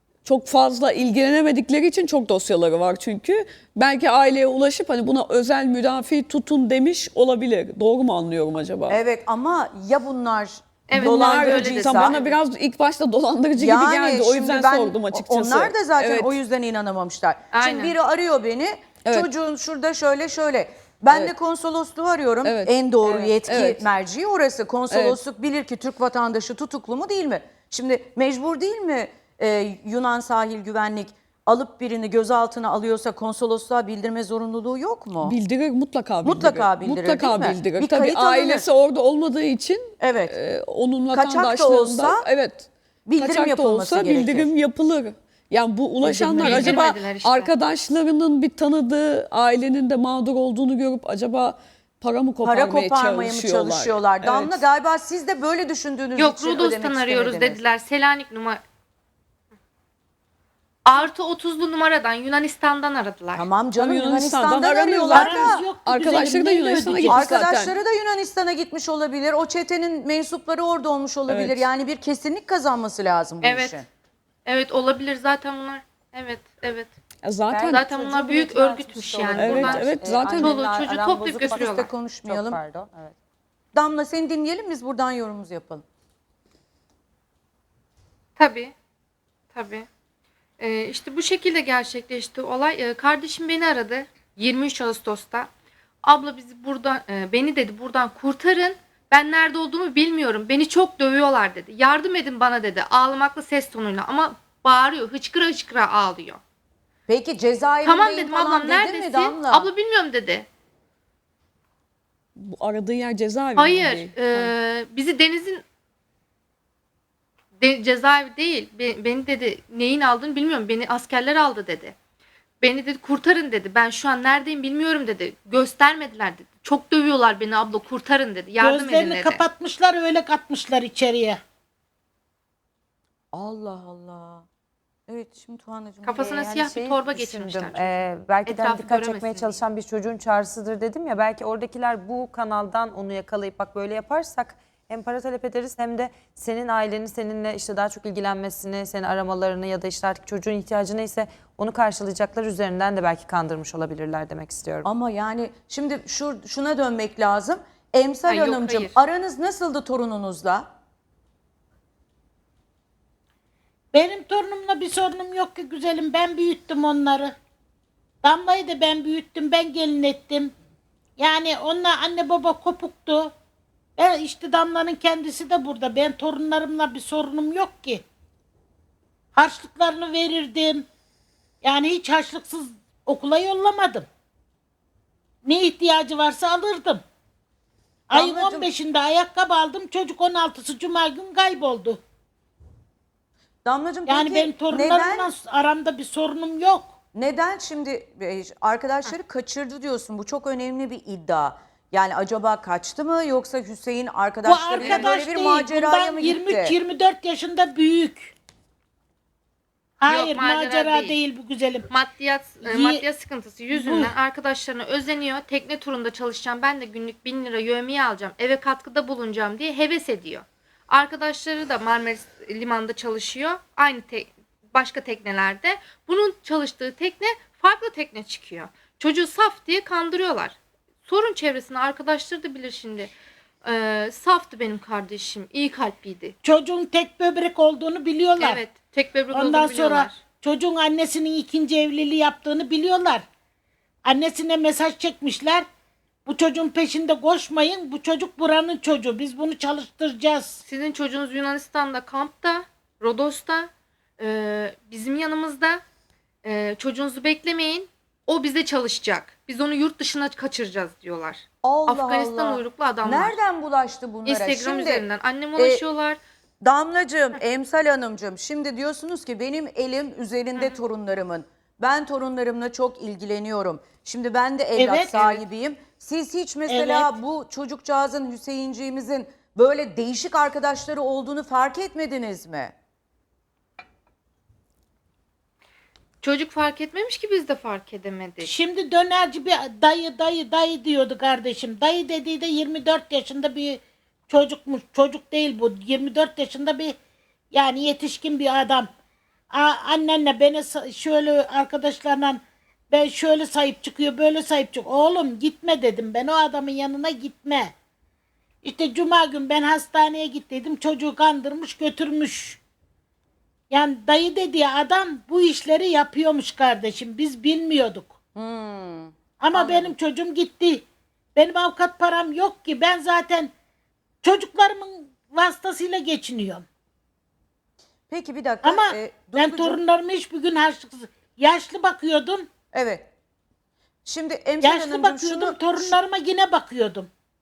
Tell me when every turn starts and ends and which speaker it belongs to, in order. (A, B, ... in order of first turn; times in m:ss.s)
0:00.2-0:09.0 A
0:08.9-0:12.2 B
0:10.9-0:12.4 C
0:10.9-0:16.4 A
0:13.5-0:35.4 B
0:17.5-0:18.0 C
0:22.4-0:23.8 A
0:24.9-0:25.2 A
0:35.2-0:54.6 A
0:36.2-0:38.7 B
0:40.0-0:40.4 B
0:41.1-0:42.3 B
0:43.1-0:44.5 B
0:46.0-0:47.5 C
0:46.4-0:46.7 B
0:52.4-0:57.6 B
0:56.2-0:58.6 C
1:00.8-1:03.6 C
1:03.4-1:05.6 B
1:03.8-1:07.8 A
1:05.1-1:07.2 D
1:07.1-1:13.9 B
1:11.3-1:11.7 A
1:13.4-1:13.8 C
1:14.4-1:16.9 C
1:17.2-1:17.9 A
1:17.5-1:23.2 E
1:17.7-1:21.9 C
1:19.3-1:20.6 A
1:21.5-1:22.6 B
1:23.7-1:25.8 B
1:28.4-1:28.7 C
1:29.5-1:29.9 C
1:30.6-1:35.5 C
1:36.0-1:46.4 C
1:47.1-1:49.7 B
1:47.8-1:50.5 C
1:52.4-1:54.5 A
1:53.6-1:55.6 C
1:57.6-2:02.0 C
2:02.6-2:09.4 C
2:08.6-2:11.4 D
2:13.3-2:14.4 B
2:15.1-2:16.3 B
2:16.0-2:19.6 C
2:16.2-2:34.9 E
2:34.8-2:40.7 B
2:38.3-2:39.0 C
2:43.9-2:47.3 D
2:48.2-2:50.5 D
2:51.2-2:53.3 D
2:54.0-2:58.0 D
2:59.4-3:00.9 D
3:01.6-3:04.1 D
3:05.4-3:07.0 D
3:08.1-3:08.7 B
3:08.1-3:12.0 D
3:13.6-3:15.3 B
3:14.1-3:16.9 D
3:17.2-3:26.8 B
3:24.4-3:28.4 D
3:24.8-3:25.2 C
3:30.0-3:31.9 D
3:30.1-3:31.2 C
3:31.9-3:53.1 C
3:32.6-3:33.0 D
3:33.7-3:34.1 D
3:53.6-3:56.4 C
3:56.4-3:58.6 D
3:58.4-4:00.2 C
3:59.3-4:03.2 D
4:04.0-4:05.7 D
4:06.2-4:10.6 D
4:10.7-4:15.8 C
4:16.4-4:23.4 C
4:21.6-4:25.8 B
4:24.2-4:26.2 C
4:26.6-4:42.7 B
4:34.8-4:35.4 D
4:36.7-4:37.1 D
4:46.2-4:48.5 C
4:48.4-4:57.0 D
4:57.5-4:58.9 D
4:59.5-5:07.7 D
5:08.6-5:12.6 D
5:13.7-5:18.1 D
5:18.4-5:19.9 B
5:19.4-5:23.5 D
5:24.2-5:26.7 D
5:28.1-5:29.8 B
5:28.6-5:32.5 D
5:32.7-5:33.1 B
5:34.0-5:36.0 B
5:34.6-5:37.1 D